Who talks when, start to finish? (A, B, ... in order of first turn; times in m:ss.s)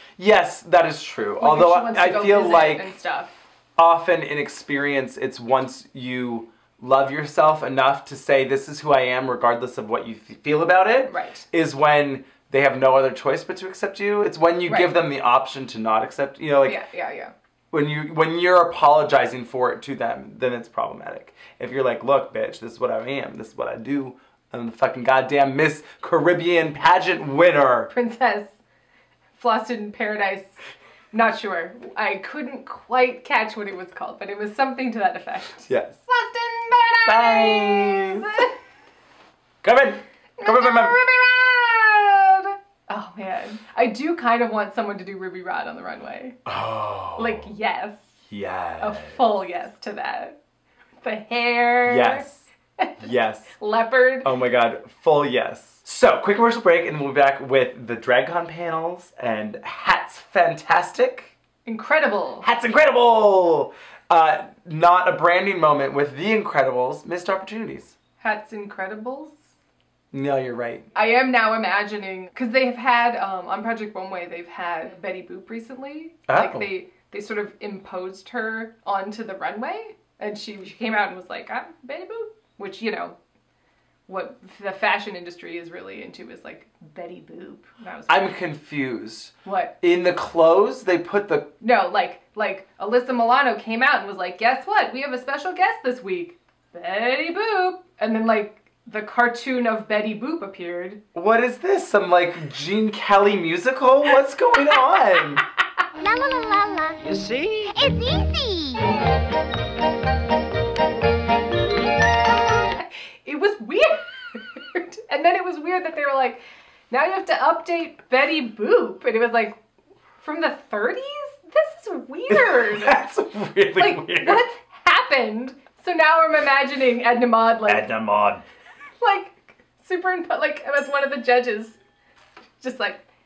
0:00.2-0:02.9 A
0:01.4-0:03.4 B
0:03.8-0:16.8 A
0:11.1-0:11.4 B
0:14.7-0:15.0 B
0:16.6-0:17.3 B
0:17.7-0:27.9 A
0:27.9-0:28.6 B
0:29.4-0:30.6 B
0:31.1-0:38.5 B
0:35.7-0:36.0 A
0:37.0-0:38.4 A
0:39.6-0:41.0 A
0:40.4-0:46.4 B
0:46.4-0:47.5 A
0:47.2-0:48.1 B
0:48.3-0:49.2 A
0:48.8-0:50.4 B
0:51.0-0:52.2 B
0:51.9-0:52.5 A
0:52.8-0:54.3 B
0:53.0-0:53.5 A
0:54.2-1:01.3 A
1:01.6-1:02.5 B
1:02.4-1:08.0 A
1:08.2-1:09.4 B
1:10.1-1:10.9 A
1:11.0-1:23.2 B
1:16.3-1:16.7 A
1:24.1-1:28.4 B
1:28.1-1:31.5 A
1:29.4-1:29.7 B
1:31.6-1:41.0 B
1:41.1-1:45.4 A
1:46.0-1:49.0 C
1:52.7-1:59.6 B
2:00.2-2:03.0 B
2:02.3-2:04.4 A
2:03.8-2:07.9 B
2:07.7-2:08.4 A
2:09.0-2:11.8 B
2:12.6-2:13.0 B